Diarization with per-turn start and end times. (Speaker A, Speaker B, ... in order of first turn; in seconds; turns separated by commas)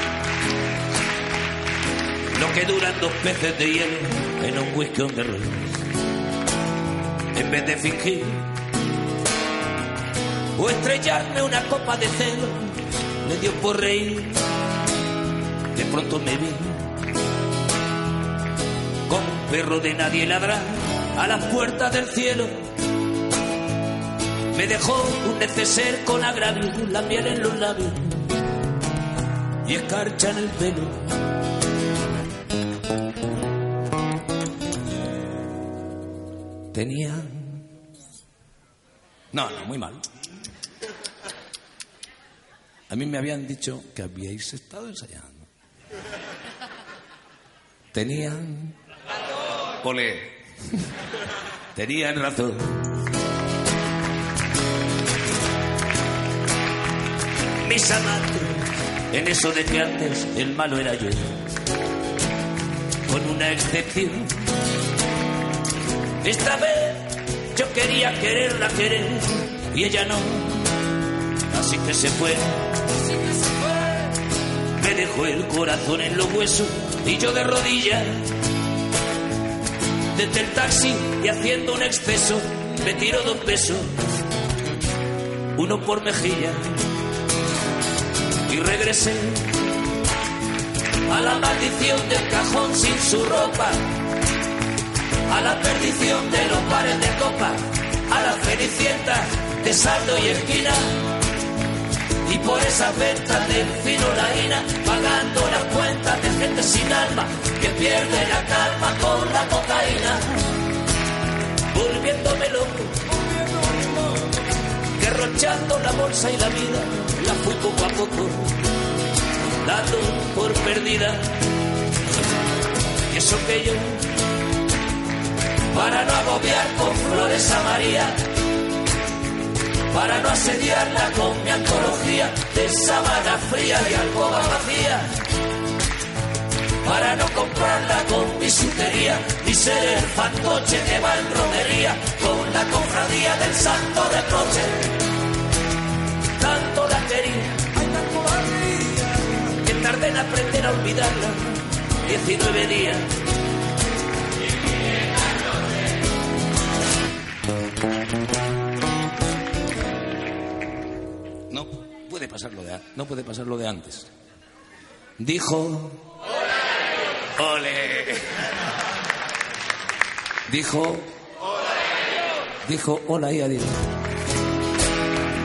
Speaker A: 2.3-5.8, Speaker A: 7.3-8.5, Speaker A: 10.6-14.4, Speaker A: 15.7-16.9, Speaker A: 19.1-22.6, Speaker A: 24.5-28.2, Speaker A: 29.6-31.2, Speaker A: 36.7-37.6, Speaker A: 39.3-40.0, Speaker A: 42.9-45.4, Speaker A: 47.9-48.7, Speaker A: 49.8-50.4, Speaker A: 51.7-53.0, Speaker A: 57.6-61.4, Speaker A: 63.1-64.5, Speaker A: 66.2-70.7, Speaker A: 71.5-72.8, Speaker A: 74.8-78.3, Speaker A: 80.1-83.9, Speaker A: 85.5-86.9, Speaker A: 88.5-89.7, Speaker A: 91.1-93.8, Speaker A: 95.3-101.1, Speaker A: 102.2-110.4, Speaker A: 111.7-114.0, Speaker A: 114.9-118.7, Speaker A: 119.6-121.5, Speaker A: 123.1-124.1, Speaker A: 125.7-128.2, Speaker A: 129.9-135.2, Speaker A: 136.8-144.9, Speaker A: 146.3-153.2, Speaker A: 161.5-164.1, Speaker A: 165.2-166.1, Speaker A: 167.4-168.4, Speaker A: 170.5-171.1, Speaker A: 172.6-173.9